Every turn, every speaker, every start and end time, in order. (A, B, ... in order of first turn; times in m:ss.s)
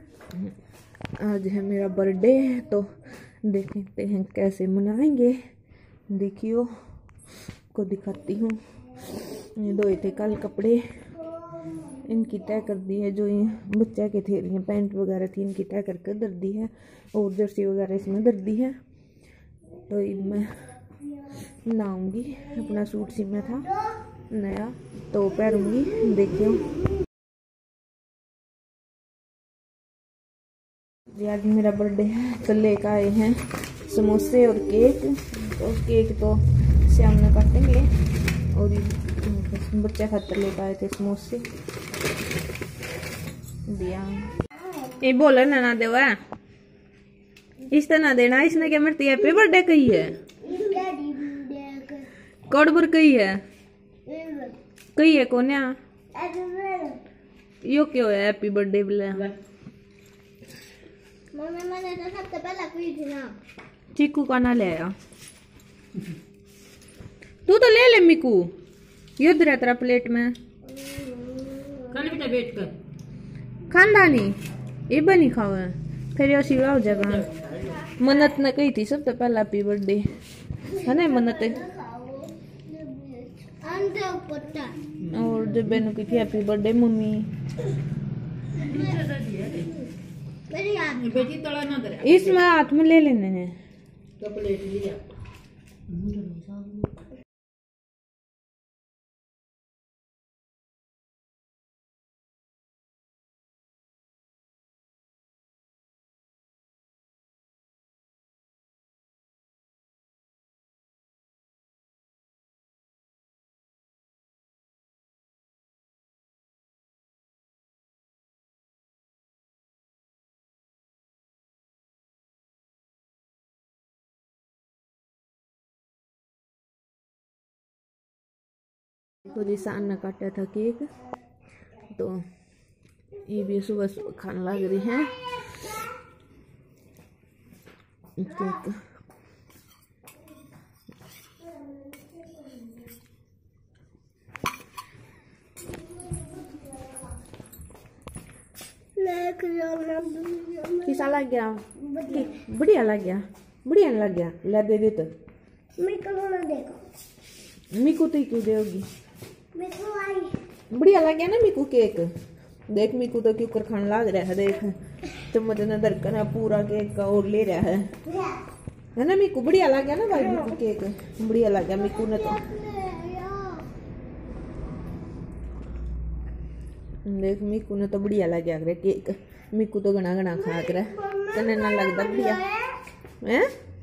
0:01.1-0:05.4 A
0:06.1-0:06.7 A
0:07.7-0:10.8 A
0:11.9-0:18.8 A
0:19.8-0:20.7 A
0:21.4-0:26.7 A
0:23.6-0:24.0 B
0:31.1-0:37.9 A
0:38.5-0:41.4 A
0:43.6-0:44.3 A
0:45.0-0:46.2 A
0:47.7-0:50.2 A
0:50.4-0:52.1 B
0:52.5-0:53.4 A
0:54.0-0:54.6 B
0:55.0-0:55.8 A
0:56.1-0:57.0 B
0:57.6-0:59.3 A
1:01.3-1:03.3 B
1:03.9-1:04.9 A
1:07.4-1:08.5 A
1:09.2-1:10.3 A
1:10.6-1:12.1 B
1:11.9-1:12.7 C
1:13.7-1:14.4 A
1:14.9-1:17.3 A
1:17.1-1:17.8 C
1:17.9-1:20.1 A
1:20.7-1:21.6 A
1:20.7-1:25.0 B
1:25.0-1:27.3 A
1:28.6-1:29.0 B
1:28.6-1:29.7 C
1:30.5-1:31.3 B
1:31.0-1:32.4 C
1:32.0-1:33.6 A
1:34.2-1:35.0 C
1:35.9-1:36.9 C
2:09.2-2:10.9 A
2:11.9-2:12.2 A
2:13.2-2:15.7 A
2:18.2-2:18.8 A
2:22.4-2:22.7 B
2:26.0-2:26.8 B
2:29.0-2:31.1 B
2:30.8-2:35.1 A
2:31.8-2:32.4 B
2:35.8-2:36.8 B
2:37.7-2:38.9 A
2:39.5-2:40.4 B
2:40.7-2:42.1 A
2:42.7-2:47.9 A
2:48.0-2:48.4 B
2:49.0-2:52.4 A
2:50.1-2:50.6 B
2:51.8-2:53.7 B
2:57.0-3:02.4 A
3:00.4-3:02.9 B
3:03.2-3:03.5 A